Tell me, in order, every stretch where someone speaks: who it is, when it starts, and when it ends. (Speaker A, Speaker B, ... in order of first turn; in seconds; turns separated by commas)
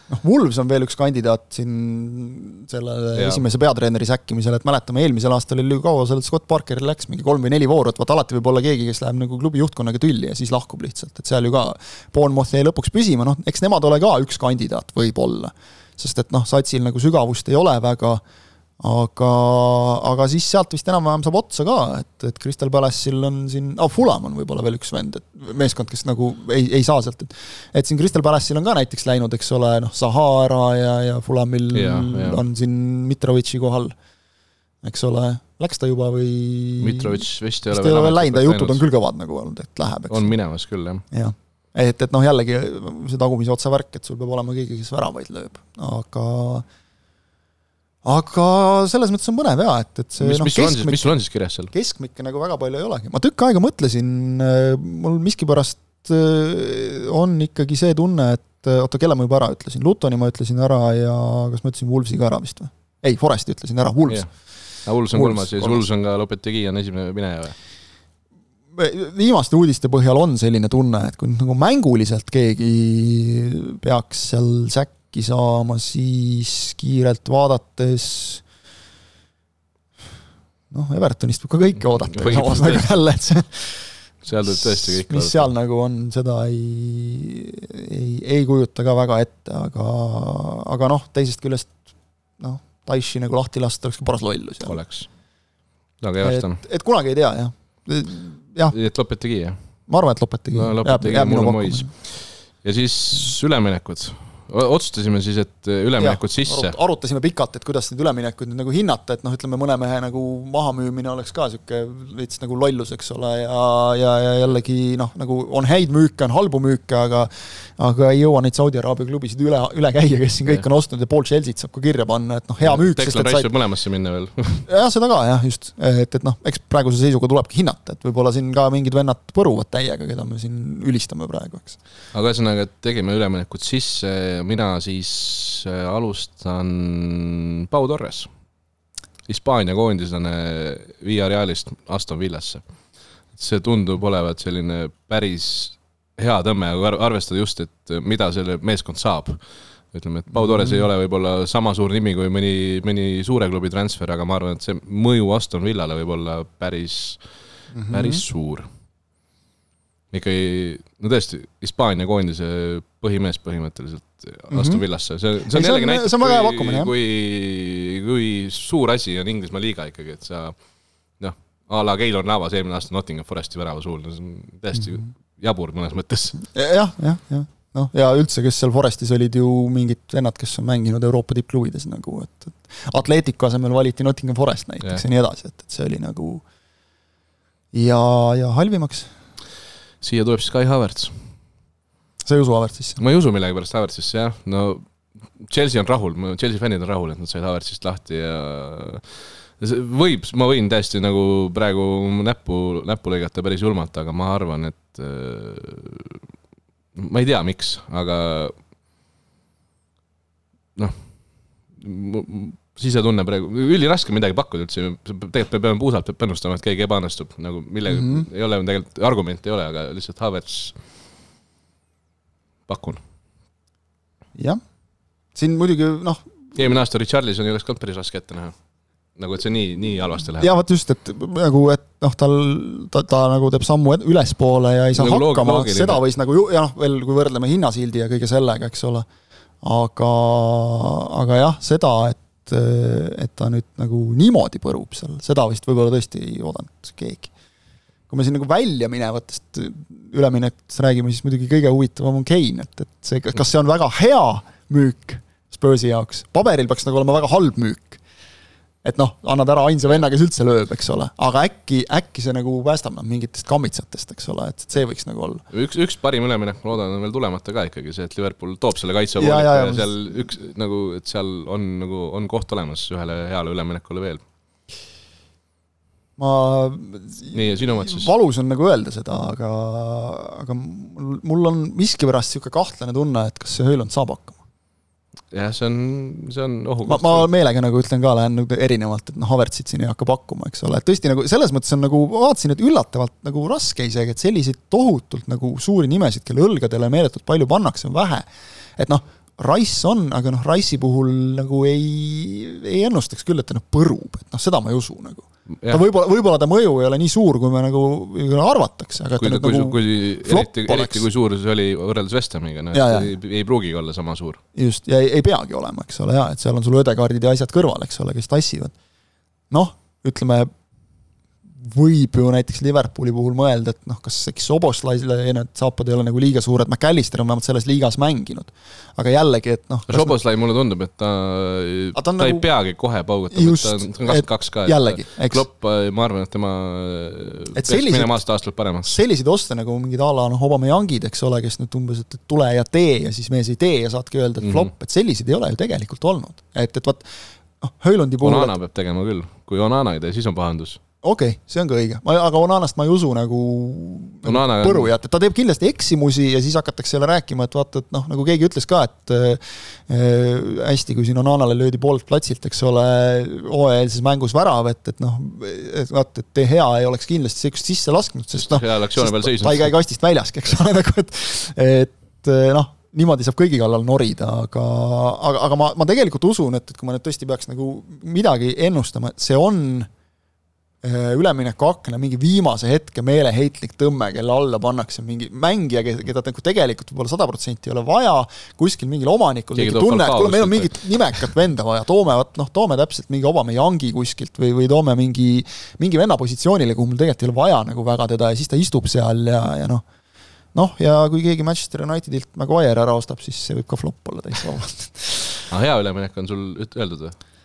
Speaker A: 0.1-18.2, Speaker B: 3.1-3.4, Speaker A: 18.8-34.0, Speaker B: 31.7-32.4, Speaker A: 34.8-40.3, Speaker B: 36.8-38.9, Speaker B: 40.1-41.0, Speaker A: 41.1-46.6, Speaker A: 48.0-64.4, Speaker B: 50.2-51.7, Speaker B: 64.8-67.5, Speaker A: 65.1-65.8, Speaker A: 68.7-78.5, Speaker A: 80.7-83.9, Speaker B: 82.1-83.0, Speaker B: 84.2-85.5, Speaker A: 84.5-94.8, Speaker B: 94.7-95.1, Speaker B: 96.0-96.6, Speaker A: 96.2-98.8, Speaker B: 98.7-99.6, Speaker A: 99.9-101.9, Speaker B: 100.5-106.8, Speaker A: 106.0-123.5, Speaker B: 122.6-124.7, Speaker A: 124.7-131.8, Speaker B: 132.1-138.3, Speaker B: 139.3-142.6, Speaker B: 143.3-157.2, Speaker A: 150.3-150.8, Speaker A: 157.7-158.2, Speaker B: 157.9-158.7, Speaker B: 160.1-170.6, Speaker A: 164.5-164.8, Speaker A: 165.5-166.9, Speaker B: 171.2-176.4, Speaker A: 176.5-186.4, Speaker A: 187.7-189.1, Speaker B: 190.0-191.2, Speaker A: 192.3-193.0, Speaker B: 193.0-206.2, Speaker B: 206.9-208.6, Speaker B: 211.7-220.8, Speaker A: 217.9-218.3, Speaker B: 222.7-223.0, Speaker A: 225.3-226.3, Speaker B: 226.6-228.6, Speaker B: 229.2-230.5, Speaker A: 230.4-239.1, Speaker B: 234.9-236.0, Speaker A: 239.6-247.3, Speaker A: 248.1-258.0, Speaker A: 258.8-265.4, Speaker B: 265.5-274.2, Speaker A: 269.2-269.9, Speaker A: 276.2-284.4, Speaker B: 277.3-278.1, Speaker B: 285.3-287.3, Speaker A: 286.9-311.1, Speaker B: 309.2-314.4, Speaker A: 312.7-313.1, Speaker A: 314.6-318.7, Speaker A: 319.5-320.5, Speaker A: 321.6-330.2, Speaker B: 329.9-339.0, Speaker A: 331.9-332.5, Speaker A: 333.3-335.5, Speaker A: 337.6-338.2, Speaker A: 338.8-347.1, Speaker B: 344.4-344.7, Speaker A: 347.6-348.6, Speaker B: 348.2-350.8, Speaker A: 351.0-379.9, Speaker B: 354.2-354.9, Speaker B: 368.3-369.7, Speaker A: 380.8-399.8, Speaker B: 389.6-391.3, Speaker A: 400.5-405.5, Speaker B: 405.5-407.2